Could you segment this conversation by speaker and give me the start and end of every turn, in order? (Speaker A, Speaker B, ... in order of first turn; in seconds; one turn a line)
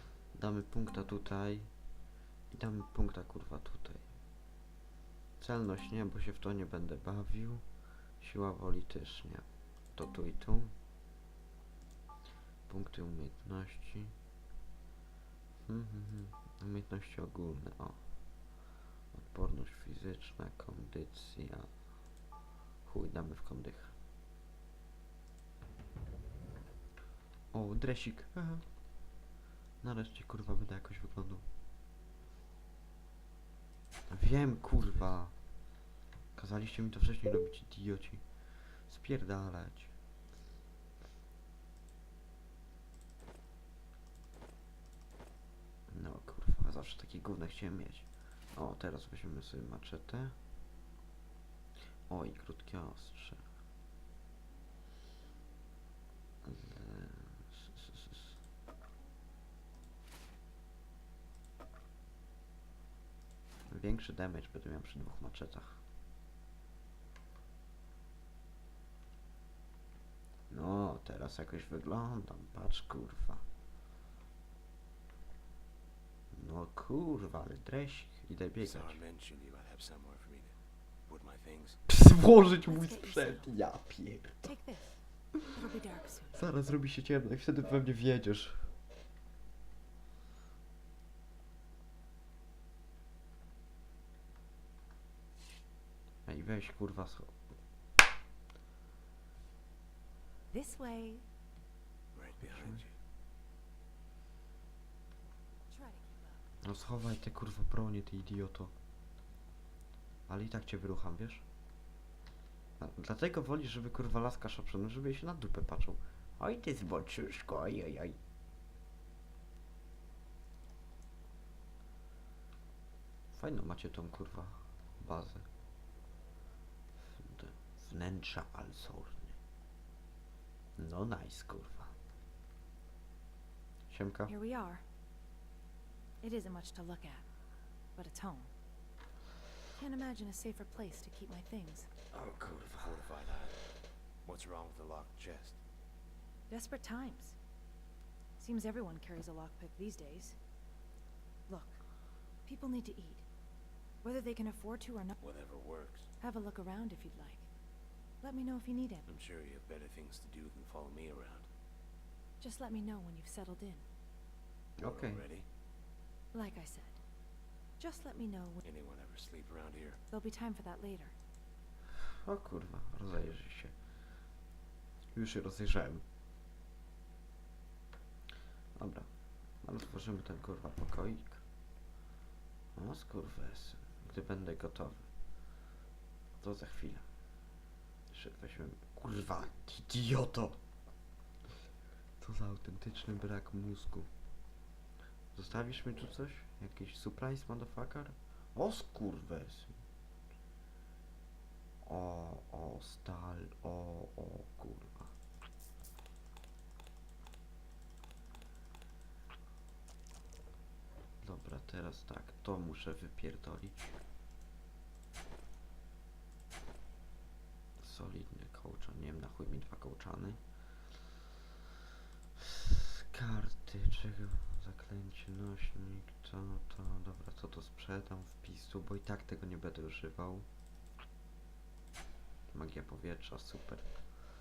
Speaker A: 0.3-1.7
Speaker A: 2.5-4.1
Speaker A: 5.4-7.6
Speaker A: 8.2-10.7
Speaker A: 12.7-14.1
Speaker A: 15.6-18.0
Speaker A: 19.1-21.7
Speaker A: 22.8-23.9
Speaker A: 27.5-28.7
Speaker A: 29.8-31.4
Speaker A: 34.1-35.3
Speaker A: 36.3-39.9
Speaker A: 45.9-50.4
Speaker A: 52.1-53.4
Speaker A: 56.4-58.4
Speaker A: 63.7-65.8
Speaker A: 70.5-73.4
Speaker A: 76.3-79.0
Speaker B: 78.6-81.8
Speaker A: 81.9-84.5
Speaker C: 82.6-83.5
Speaker C: 84.4-86.4
Speaker A: 86.3-88.7
Speaker A: 96.2-97.4
Speaker C: 100.5-101.2
Speaker B: 102.1-103.0
Speaker A: 102.4-102.8
Speaker C: 105.7-106.4
Speaker A: 106.6-108.7
Speaker A: 110.3-111.5
Speaker A: 112.8-118.2
Speaker A: 123.3-125.5
Speaker A: 127.0-129.4
Speaker A: 130.8-131.9
Speaker A: 133.9-134.3
Speaker C: 134.3-134.8
Speaker C: 136.2-137.2
Speaker C: 137.9-138.5
Speaker C: 139.8-141.9
Speaker A: 142.1-143.1
Speaker B: 142.8-143.6
Speaker B: 144.2-145.6
Speaker C: 146.5-147.3
Speaker C: 148.4-150.4
Speaker C: 151.5-151.8
Speaker C: 152.4-153.2
Speaker C: 154.0-155.1
Speaker B: 155.2-156.1
Speaker C: 156.2-157.5
Speaker C: 158.2-159.0
Speaker B: 159.1-161.5
Speaker C: 162.4-163.8
Speaker A: 164.8-165.2
Speaker B: 164.8-165.4
Speaker C: 166.3-167.0
Speaker C: 167.8-168.6
Speaker B: 168.6-170.0
Speaker C: 170.1-171.1
Speaker A: 171.9-173.7
Speaker A: 175.1-176.0
Speaker A: 178.7-179.1
Speaker A: 179.6-181.4
Speaker A: 182.7-185.1
Speaker A: 186.4-187.0
Speaker A: 188.1-190.6
Speaker A: 192.2-194.1
Speaker A: 195.3-199.8
Speaker A: 201.8-205.1
Speaker A: 211.2-214.0
Speaker A: 217.8-220.4
Speaker A: 222.4-230.5
Speaker A: 232.5-234.1